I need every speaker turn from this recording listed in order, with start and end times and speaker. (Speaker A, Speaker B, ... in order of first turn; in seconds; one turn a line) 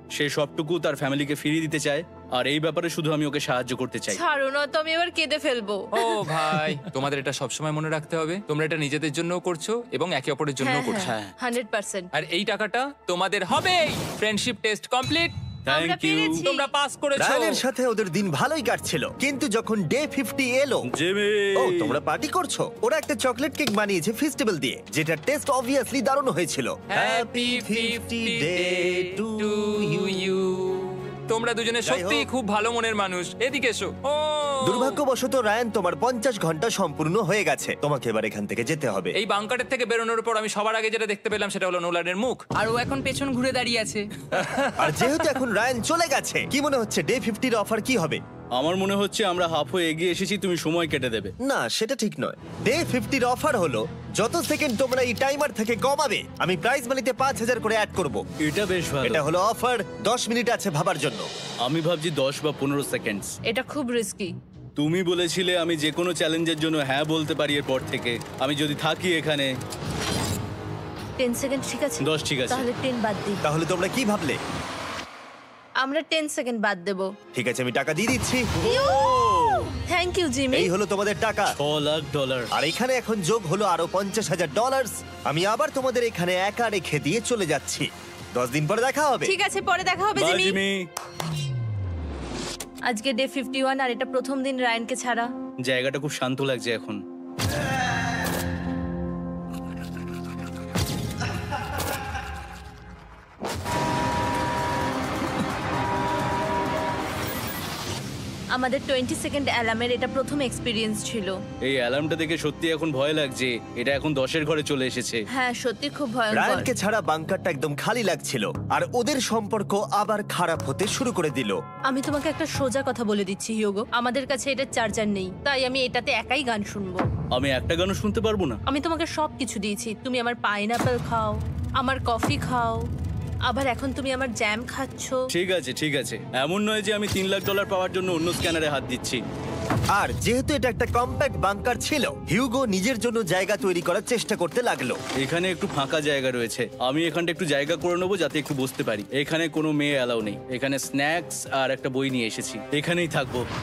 Speaker A: 0.1-4.2
Speaker B: 4.1-6.0
Speaker C: 5.9-11.1
Speaker B: 10.6-12.1
Speaker A: 11.0-11.3
Speaker C: 12.1-15.4
Speaker A: 15.7-16.4
Speaker B: 15.7-16.7
Speaker C: 16.4-17.6
Speaker D: 17.1-20.9
Speaker A: 20.9-22.0
Speaker D: 21.6-30.2
Speaker C: 26.9-35.0
Speaker D: 31.8-32.3
Speaker D: 34.6-39.1
Speaker C: 39.1-42.4
Speaker E: 42.5-44.7
Speaker D: 44.8-48.2
Speaker A: 48.5-51.3
Speaker D: 51.4-58.2
Speaker A: 58.4-59.2
Speaker D: 59.0-61.3
Speaker A: 61.6-63.3
Speaker B: 63.5-64.3
Speaker A: 64.8-69.5
Speaker B: 71.2-73.4
Speaker A: 72.0-72.6
Speaker D: 73.4-74.4
Speaker B: 75.8-77.1
Speaker D: 77.3-78.5
Speaker A: 78.6-79.7
Speaker B: 78.6-80.7
Speaker D: 80.5-81.5
Speaker A: 81.5-82.5
Speaker D: 82.5-89.3
Speaker B: 89.2-90.6
Speaker A: 90.2-90.8
Speaker B: 92.9-95.3
Speaker A: 95.7-97.0
Speaker B: 108.5-111.4
Speaker A: 111.6-115.2
Speaker B: 115.3-116.7
Speaker D: 116.3-121.6
Speaker B: 121.9-127.1
Speaker A: 127.3-128.6
Speaker B: 128.7-132.8
Speaker B: 133.5-135.2
Speaker A: 135.3-139.2
Speaker D: 139.9-145.0
Speaker A: 145.2-153.4